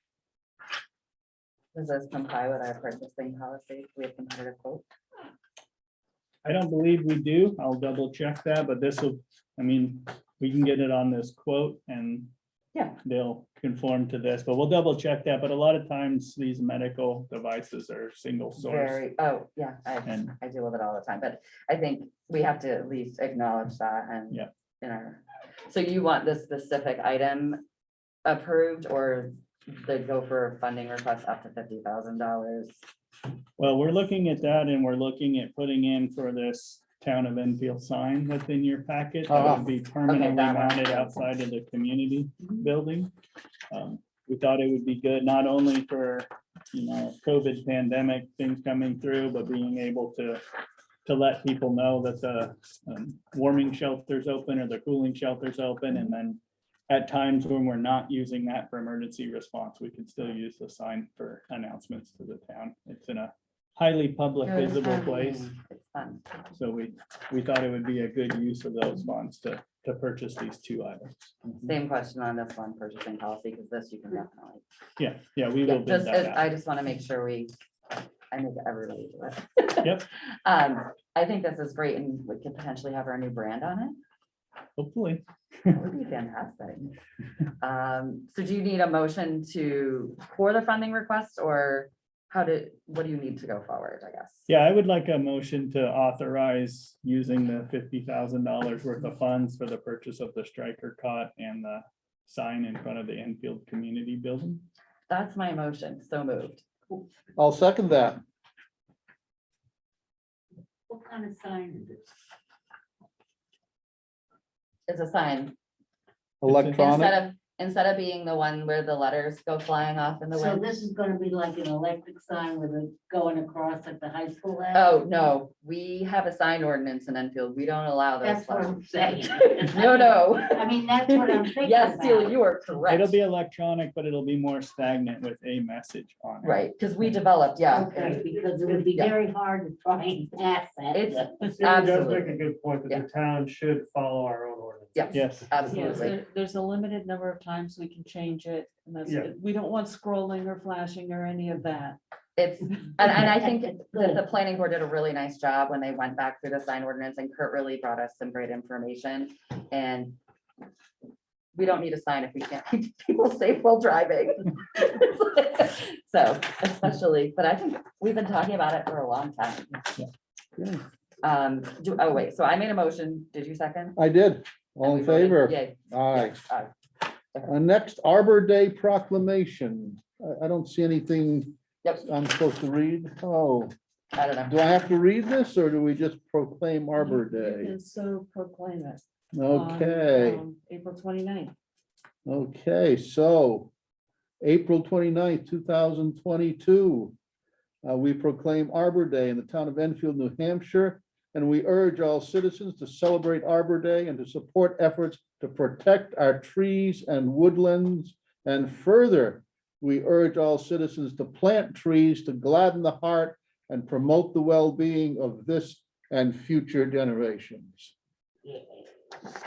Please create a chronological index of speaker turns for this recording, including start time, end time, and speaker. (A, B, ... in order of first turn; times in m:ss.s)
0:01.7-0:04.8 A
0:06.4-0:12.3 B
0:13.0-0:19.0 B
0:18.6-0:27.6 A
0:20.0-0:20.3 B
0:28.2-0:32.8 A
0:33.6-0:43.1 B
0:39.3-0:39.6 C
0:40.0-0:41.2 A
0:43.7-0:50.4 B
0:51.0-1:05.5 B
1:04.4-1:06.3 A
1:06.6-1:11.5 B
1:11.6-1:14.6 A
1:15.0-1:16.4 B
1:15.6-1:17.5 A
1:18.3-1:24.0 A
1:19.8-1:20.1 B
1:24.8-1:25.7 B
1:25.7-1:26.9 A
1:27.6-1:34.5 A
1:34.5-1:44.6 B
1:45.1-1:46.6 A
1:47.4-1:48.2 C
1:50.9-1:52.1 D
1:54.9-1:55.5 A
1:56.4-1:57.2 C
1:56.5-1:56.7 B
1:56.6-2:00.9 A
2:00.3-2:05.1 D
2:04.7-2:13.1 A
2:08.2-2:12.4 D
2:12.9-2:16.6 B
2:16.4-2:17.9 A
2:17.7-2:21.4 D
2:17.9-2:18.2 E
2:18.9-2:19.2 A
2:20.9-2:22.4 A
2:21.3-2:25.2 E
2:24.9-2:26.2 A
2:25.1-2:25.6 B
2:25.7-2:32.0 F
2:25.7-2:26.1 E
2:29.0-2:29.3 E
2:32.4-2:40.2 A
2:41.5-2:49.9 A
2:50.6-2:50.8 C
2:51.2-2:54.0 A
2:54.0-2:56.4 C
2:54.8-2:56.7 A
2:57.5-3:03.7 C
3:04.1-3:04.5 A
3:04.5-3:07.7 C
3:07.0-3:11.5 F
3:09.3-3:10.4 C
3:12.2-3:13.7 C
3:14.4-3:17.1 C
3:17.8-3:37.9 C
3:38.4-3:38.8 D